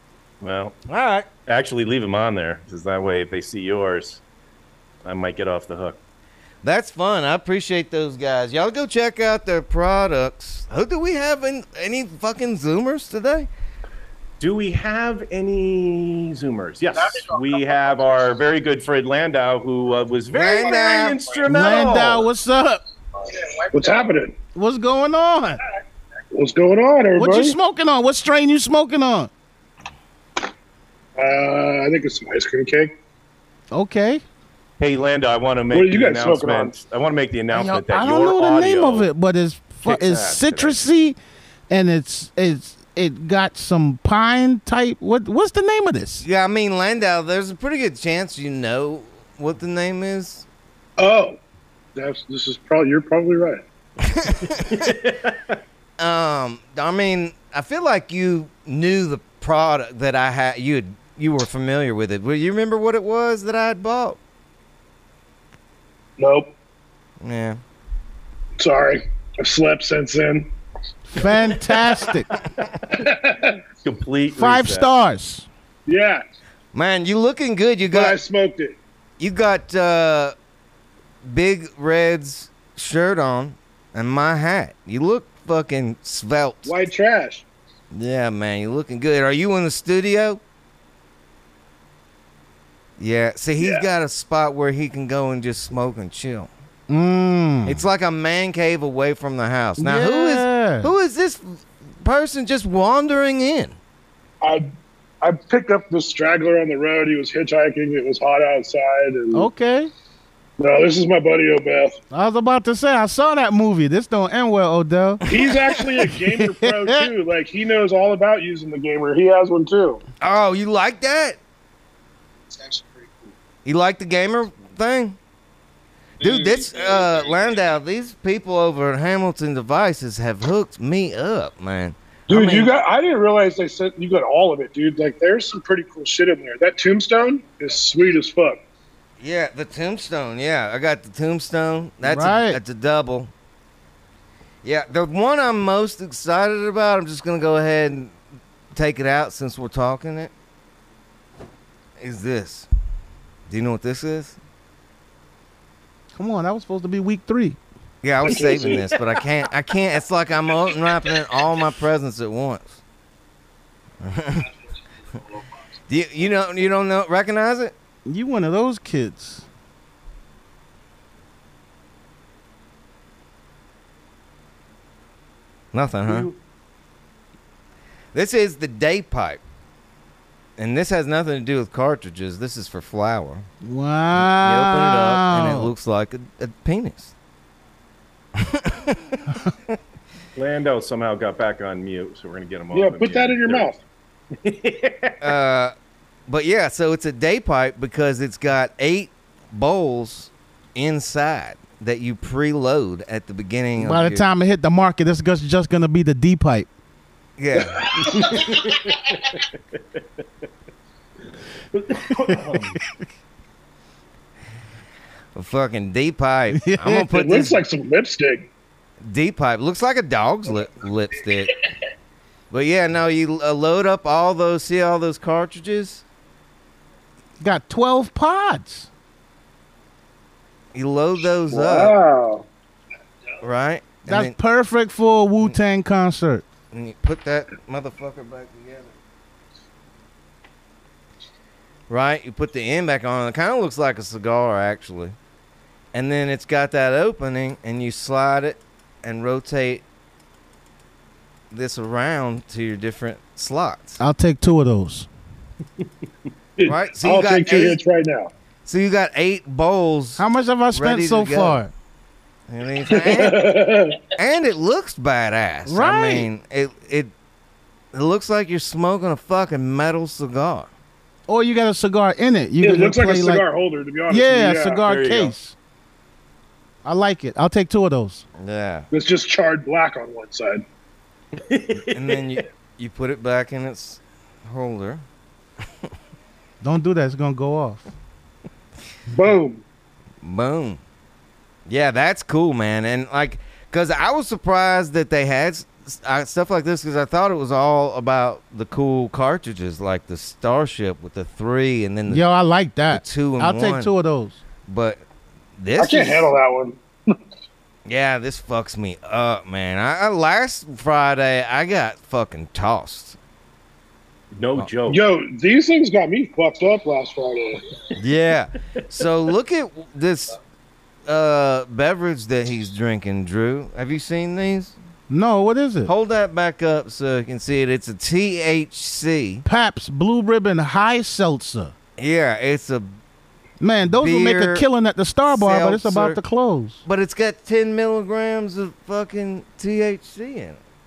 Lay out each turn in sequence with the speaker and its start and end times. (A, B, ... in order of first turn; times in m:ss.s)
0:00.4-0:00.8 A
0:00.9-0:01.3 B
0:01.5-0:04.2 A
0:05.0-0:06.0 A
0:06.6-0:13.5 B
0:14.4-0:22.3 A
0:20.3-0:21.3 B
0:21.5-0:22.8 C
0:23.7-0:24.4 D
0:24.5-0:25.6 C
0:26.3-0:27.6 D
0:27.2-0:29.3 C
0:31.2-0:32.9 D
0:33.7-0:34.2 C
0:34.8-0:39.1 A
0:35.7-0:36.8 D
0:37.5-0:41.2 C
0:39.8-0:40.8 A
0:41.7-0:46.2 C
0:46.2-0:50.4 B
0:51.0-0:51.4 D
0:52.0-0:53.6 D
0:54.0-0:54.7 B
0:54.6-0:55.6 A
0:56.0-1:04.2 B
1:06.2-1:06.5 D
1:07.2-1:07.6 B
1:08.6-1:10.5 D
1:11.1-1:12.3 C
1:11.2-1:12.2 A
1:12.9-1:13.6 D
1:13.8-1:14.9 A
1:14.3-1:15.5 C
1:15.9-1:16.2 D
1:16.7-1:18.2 B
1:17.9-1:18.8 D
1:19.2-1:20.4 B
1:21.2-1:26.8 B
1:26.6-1:27.4 D
1:27.9-1:30.4 B
1:33.0-1:36.5 B
1:36.9-1:37.8 C
1:37.6-1:43.8 B
1:39.8-1:40.9 C
1:44.4-1:44.7 D
1:45.2-1:49.5 D
1:49.3-1:49.9 C
1:50.6-1:52.0 D
1:52.1-1:55.2 C
1:55.3-2:00.0 D
1:55.3-1:55.9 B
1:56.3-1:57.1 C
2:00.2-2:01.4 B
2:03.6-2:05.2 B
2:06.2-2:12.7 B
2:12.3-2:18.6 D
2:19.2-2:23.3 B
2:22.0-2:22.6 C
2:24.6-2:28.2 B
2:28.7-2:30.3 B
2:32.0-2:32.7 B
2:33.5-2:34.4 B
2:36.2-2:37.6 C
2:38.0-2:42.8 B
2:38.3-2:38.9 D
2:44.0-2:44.5 B
2:45.9-2:47.7 B
2:48.1-2:49.4 C
2:55.7-2:56.3 B
2:56.1-2:56.4 A
2:58.1-2:59.4 B
3:00.6-3:03.5 B
3:03.6-3:05.7 C
3:04.2-3:07.1 B
3:08.4-3:09.2 B
3:10.4-3:13.7 A
3:12.7-3:13.8 D
3:14.4-3:15.3 A
3:15.2-3:15.8 B
3:16.3-3:24.3 B
3:23.8-3:26.7 C
3:27.4-3:28.3 B
3:27.7-3:28.1 D
3:28.1-3:29.4 A
3:31.7-3:32.8 A
3:35.4-3:37.6 B
3:36.6-3:37.1 C
3:37.1-3:38.5 D
3:39.0-3:41.5 B
3:42.5-3:46.0 B
3:47.4-3:48.9 C
3:50.7-3:52.0 B
3:51.5-3:52.5 D
3:53.4-3:54.4 B
3:54.1-3:56.4 C
3:56.7-3:58.9 B
4:01.9-4:05.2 B
4:05.9-4:09.8 B
4:11.5-4:14.0 B
4:14.0-4:15.1 C
4:16.6-4:18.3 D
4:16.7-4:17.8 B
4:18.7-4:21.6 B
4:20.2-4:21.7 C
4:22.5-4:23.4 B
4:22.9-4:24.0 D
4:24.2-4:27.1 B
4:25.7-4:26.3 C
4:27.9-4:30.7 B
4:31.3-4:33.4 C
4:32.6-4:34.8 D
4:34.1-4:35.6 C
4:34.8-4:35.3 A
4:36.8-4:38.2 C
4:38.4-4:38.9 B
4:38.9-4:40.6 D
4:41.4-4:42.4 A
4:41.9-4:45.0 B
4:46.6-4:47.9 C
4:49.1-4:49.6 D
4:50.2-4:50.8 B
4:51.7-5:02.3 B
5:02.1-5:04.4 C
5:02.9-5:03.9 B
5:04.7-5:05.0 B
5:05.6-5:06.3 B
5:05.8-5:06.8 D
5:07.9-5:13.2 B
5:14.3-5:15.0 A
5:14.9-5:17.6 D
5:18.0-5:20.4 B
5:21.1-5:24.8 B
5:25.1-5:25.9 C
5:25.9-5:29.4 B
5:29.4-5:31.7 C
5:32.0-5:32.9 B
5:33.6-5:36.8 C
5:33.8-5:34.7 B
5:35.3-5:36.2 B
5:36.8-5:40.6 B